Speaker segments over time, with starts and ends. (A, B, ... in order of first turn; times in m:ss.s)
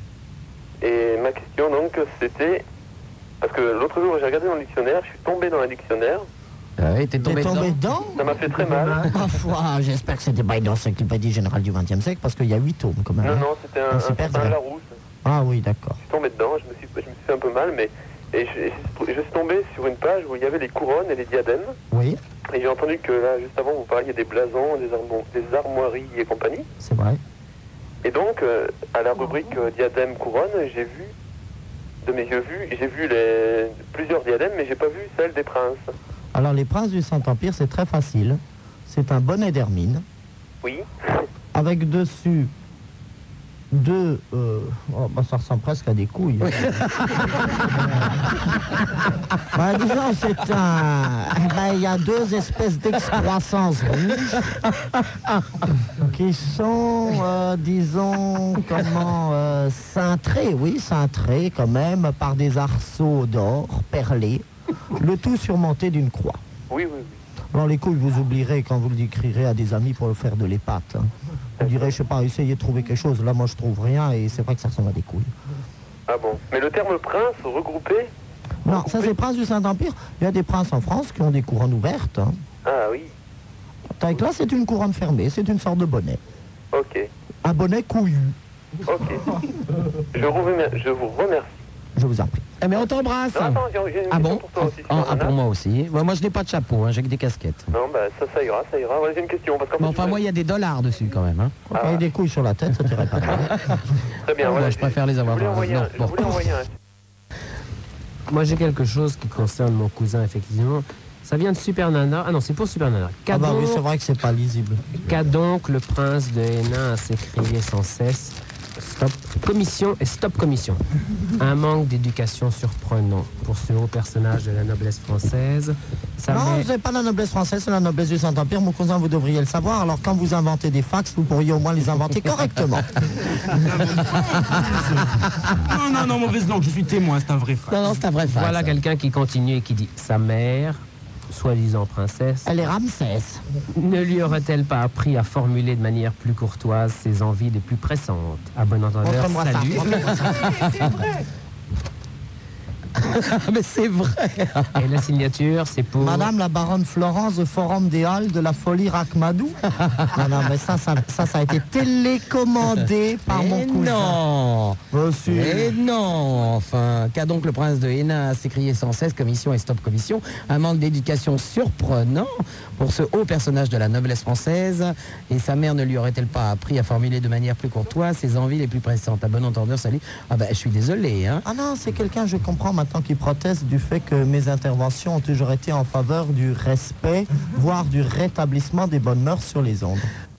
0:00.8-0:02.6 A
0:03.4-0:06.3 A
0:06.8-0:07.8 B
0:07.2-0:08.3 C
0:08.2-0:09.1 A
0:09.0-0:14.6 C
0:13.2-0:14.9 A
0:15.2-0:16.0 C
0:16.0-0:21.8 A
0:21.9-0:22.2 C
0:22.5-0:26.7 A
0:26.8-0:27.2 C
0:28.0-0:31.1 A
0:32.0-0:35.9 A
0:36.3-0:40.0 C
0:40.6-0:41.1 A
0:41.5-0:42.5 C
0:43.7-0:46.8 C
0:46.6-0:47.4 B
0:49.5-0:54.5 C
0:56.0-1:06.4 C
1:06.7-1:07.2 A
1:07.5-1:11.1 C
1:11.6-1:15.3 C
1:11.6-1:12.0 A
1:16.1-1:18.1 A
1:18.6-1:22.4 C
1:18.7-1:19.2 A
1:22.6-1:23.1 A
1:24.0-1:26.2 C
1:26.7-1:27.1 A
1:27.4-1:28.4 C
1:28.9-1:29.2 A
1:30.1-1:31.6 A
1:32.0-1:32.4 C
1:32.6-1:37.7 B
1:33.3-1:35.4 A
1:37.7-1:40.2 A
1:39.8-1:41.6 B
1:41.7-1:43.6 C
1:41.7-1:42.0 A
1:44.2-1:46.7 A
1:44.4-1:46.5 B
1:48.3-1:53.8 D
1:53.3-1:55.0 C
1:55.0-2:00.8 D
2:01.4-2:06.7 D
2:06.3-2:12.9 C
2:13.5-2:17.9 E
2:17.7-2:18.8 B
2:18.3-2:22.6 D
2:22.4-2:23.4 C
2:23.7-2:30.0 D
2:29.0-2:30.9 C
2:33.0-2:34.8 B
2:34.8-2:36.3 D
2:36.0-2:39.6 C
2:40.1-2:44.2 C
2:43.3-3:01.4 B
2:44.9-2:45.8 C
3:01.4-3:10.1 C